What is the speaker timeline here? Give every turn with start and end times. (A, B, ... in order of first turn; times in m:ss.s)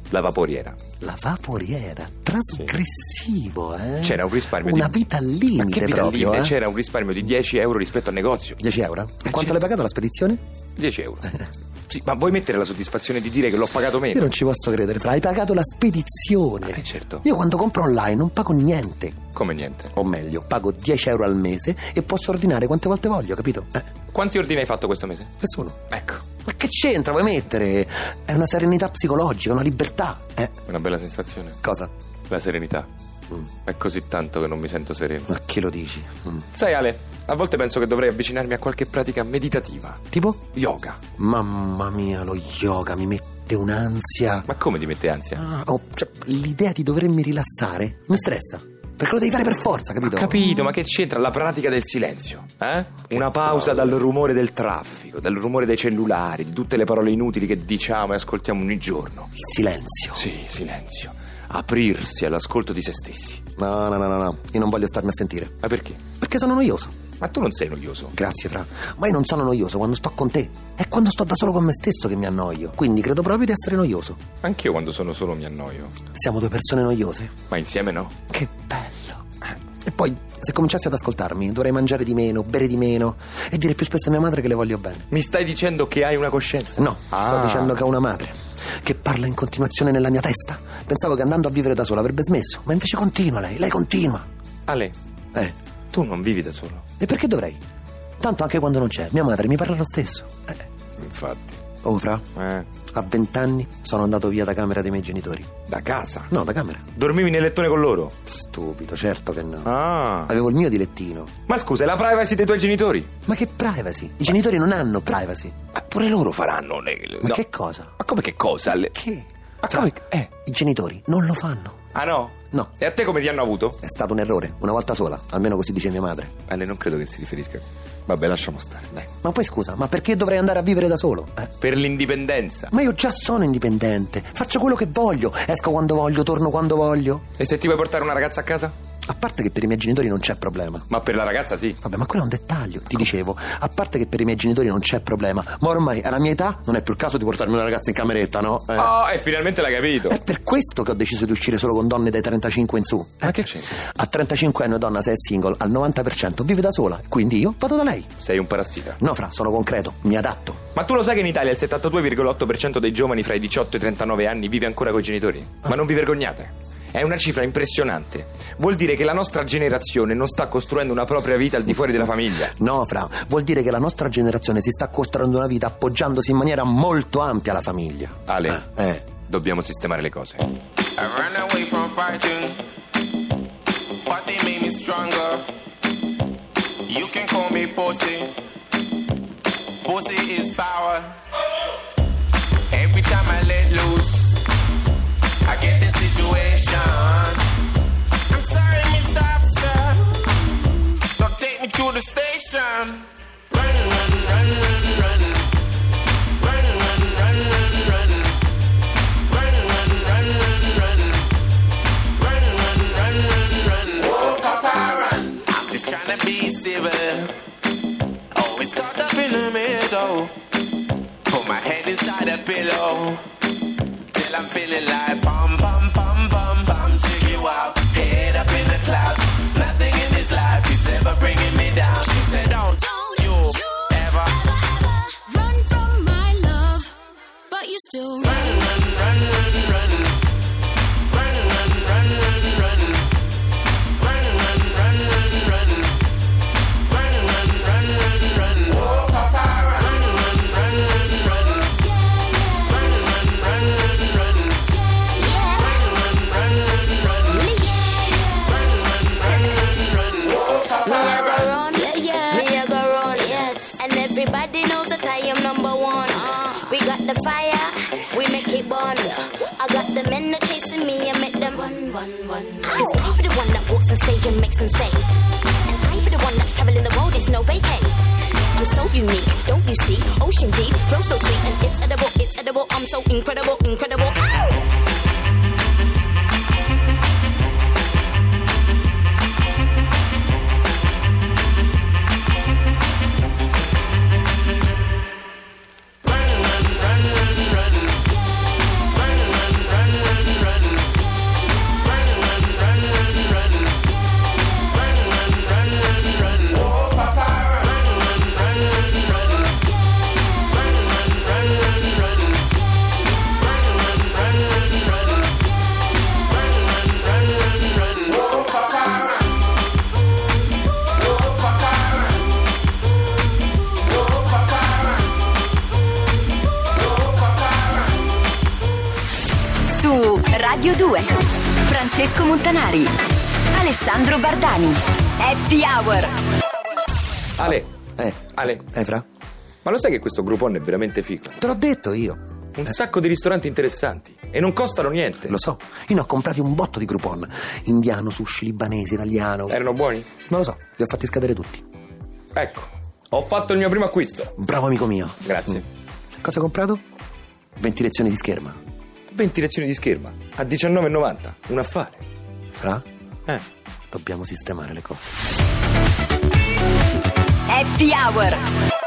0:00.1-0:00.8 A
0:01.0-0:06.6 B
0:04.0-0:05.0 A
0:05.6-0:08.6 A
0:08.6-0:10.4 B
0:09.2-0:09.7 A
0:10.8-0:14.3 A
0:14.1-0:19.2 B
0:16.6-0:17.2 A
0:19.3-0:19.9 A
0:20.0-0:23.9 B
0:24.1-0:25.3 A
0:25.4-0:25.8 B
0:25.9-0:26.2 A
0:26.4-0:30.6 B
0:30.7-0:31.6 A
0:31.6-0:31.9 B
0:32.3-0:32.9 A
0:33.7-0:35.3 A
0:35.3-0:36.4 B
0:36.5-0:40.0 A
0:40.1-0:40.4 B
0:40.5-0:41.0 A
0:41.2-0:44.5 B
0:44.5-0:45.4 A
0:45.4-0:50.5 B
0:50.0-0:59.3 A
0:53.1-0:54.0 B
0:59.4-1:00.3 B
1:00.2-1:03.4 A
1:03.6-1:05.6 B
1:05.6-1:06.0 A
1:06.2-1:07.0 B
1:07.2-1:08.1 A
1:08.1-1:14.2 B
1:14.4-1:15.9 A
1:16.1-1:17.3 B
1:17.5-1:18.2 A
1:18.3-1:19.2 B
1:19.8-1:25.1 B
1:25.1-1:27.8 A
1:26.8-1:34.3 B
1:34.7-1:35.0 A
1:35.9-1:36.8 A
1:37.0-1:37.6 B
1:38.2-1:40.5 B
1:41.0-1:41.6 A
1:41.8-1:42.2 B
1:42.4-1:42.7 A
1:42.9-1:45.5 B
1:45.7-1:46.3 A
1:46.3-1:46.9 B
1:47.0-1:48.2 A
1:48.3-1:49.7 B
1:49.6-1:50.3 A
1:50.3-1:51.3 B
1:51.5-1:53.1 A
1:53.3-1:55.6 B
1:55.8-1:57.4 A
1:57.2-1:57.9 B
1:58.0-1:59.0 A
1:58.9-2:01.8 B
1:59.6-2:00.3 A
2:01.9-2:03.8 A
2:03.8-2:06.3 B
2:06.5-2:09.1 A
2:09.2-2:11.5 B
2:11.6-2:12.7 A
2:12.7-2:17.2 B
2:17.4-2:18.7 A
2:19.1-2:20.9 B
2:20.9-2:21.8 A
2:21.8-2:28.9 B
2:28.8-2:30.2 A
2:30.1-2:38.1 B
2:33.2-2:33.8 A
2:38.2-2:39.0 A
2:39.0-2:40.6 B
2:40.8-2:52.5 A
2:52.4-2:59.1 B
2:58.3-2:58.6 A
2:59.2-3:00.5 A
3:01.0-3:02.6 C
3:04.0-3:05.5 C
3:06.9-3:08.4 C
3:09.8-3:11.3 C
3:12.7-3:14.5 C
3:15.4-3:17.7 C
3:18.3-3:20.2 C
3:21.2-3:23.6 C
3:24.1-3:24.4 C
3:29.9-3:30.7 C
3:32.8-3:37.4 C
3:38.3-3:40.4 C
3:41.3-3:43.3 C
3:44.1-3:54.4 C
3:52.8-3:53.2 D
3:54.6-3:56.9 D
3:57.5-3:58.6 D
4:08.6-4:10.0 C
4:11.7-4:12.9 D
4:15.0-4:16.3 D
4:17.0-4:18.6 D
4:19.2-4:38.0 D
4:38.5-4:44.6 D
5:07.2-5:07.5 C
5:17.8-5:19.1 C
5:21.5-5:22.1 C
5:24.2-5:24.9 C
5:27.2-5:27.8 C
5:29.7-5:32.9 E
5:33.5-5:36.1 E
5:37.4-5:37.7 A
5:37.4-5:39.0 B
5:38.3-5:38.7 A
5:39.6-5:41.4 A
5:41.4-5:42.2 B
5:42.6-5:45.4 A
5:45.3-5:49.6 B
5:49.5-5:50.1 A
5:50.3-5:51.6 B
5:52.4-5:54.3 A
5:54.4-5:55.6 B
5:55.2-5:55.7 A
5:56.2-5:56.8 B
5:57.6-5:58.6 B
5:59.1-6:02.0 A
6:02.6-6:02.8 B
6:03.9-6:05.1 B
6:07.5-6:08.4 E